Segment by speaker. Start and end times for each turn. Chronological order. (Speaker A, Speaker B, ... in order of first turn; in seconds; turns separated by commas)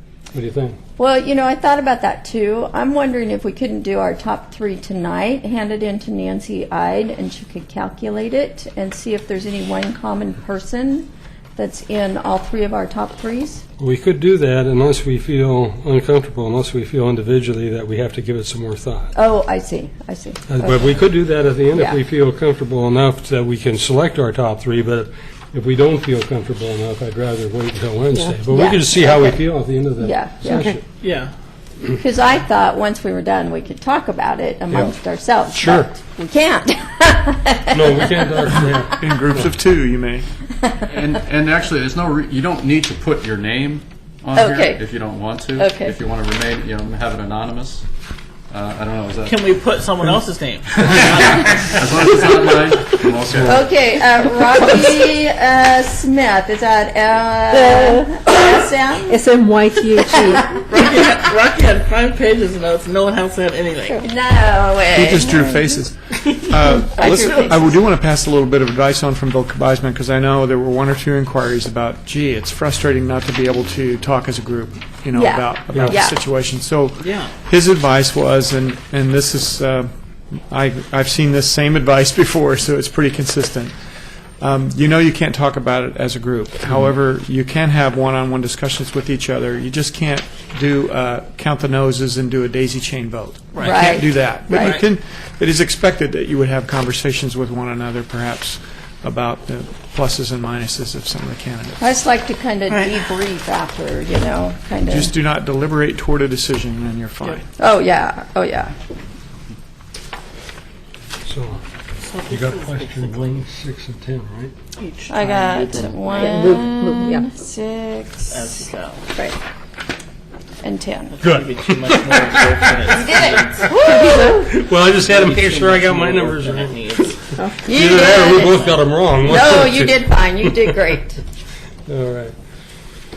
Speaker A: 0.3-0.8, Speaker B: 1.0-13.6, Speaker A: 13.8-19.1, Speaker B: 19.1-20.9, Speaker A: 20.5-30.8, Speaker B: 21.7-22.0, Speaker B: 28.5-29.4, Speaker B: 30.0-30.7, Speaker C: 31.0-31.3, Speaker B: 31.9-38.9, Speaker A: 34.7-34.9, Speaker A: 35.5-35.9, Speaker A: 37.7-39.5, Speaker D: 39.0-40.2, Speaker E: 40.9-47.9, Speaker B: 44.3-44.8, Speaker B: 45.5-45.9, Speaker E: 48.5-49.5, Speaker C: 49.2-52.2, Speaker E: 50.8-53.7, Speaker A: 53.2-53.6, Speaker B: 53.4-59.3, Speaker F: 57.5-58.3, Speaker F: 59.1-60.6, Speaker B: 60.0-60.6, Speaker C: 60.5-64.0, Speaker B: 64.0-65.9, Speaker D: 64.9-79.9, Speaker B: 66.7-67.8, Speaker B: 75.1-76.2, Speaker A: 75.7-76.0, Speaker C: 77.0-77.3, Speaker D: 80.5-83.8, Speaker D: 84.4-101.9, Speaker B: 93.6-94.8, Speaker C: 94.5-94.8, Speaker B: 101.8-105.1, Speaker C: 102.7-102.9, Speaker D: 104.9-107.5, Speaker B: 107.6-108.7, Speaker A: 111.2-111.6, Speaker C: 112.0-113.2, Speaker A: 112.3-114.5, Speaker C: 114.8-116.6, Speaker B: 115.1-118.6, Speaker F: 116.1-117.2, Speaker C: 118.3-119.1, Speaker B: 120.6-121.2, Speaker C: 121.1-124.0, Speaker A: 121.2-123.0, Speaker B: 123.0-124.5, Speaker A: 123.6-126.9, Speaker C: 125.0-127.5, Speaker B: 127.6-128.7, Speaker A: 127.6-130.7, Speaker B: 129.2-131.2, Speaker A: 131.9-132.3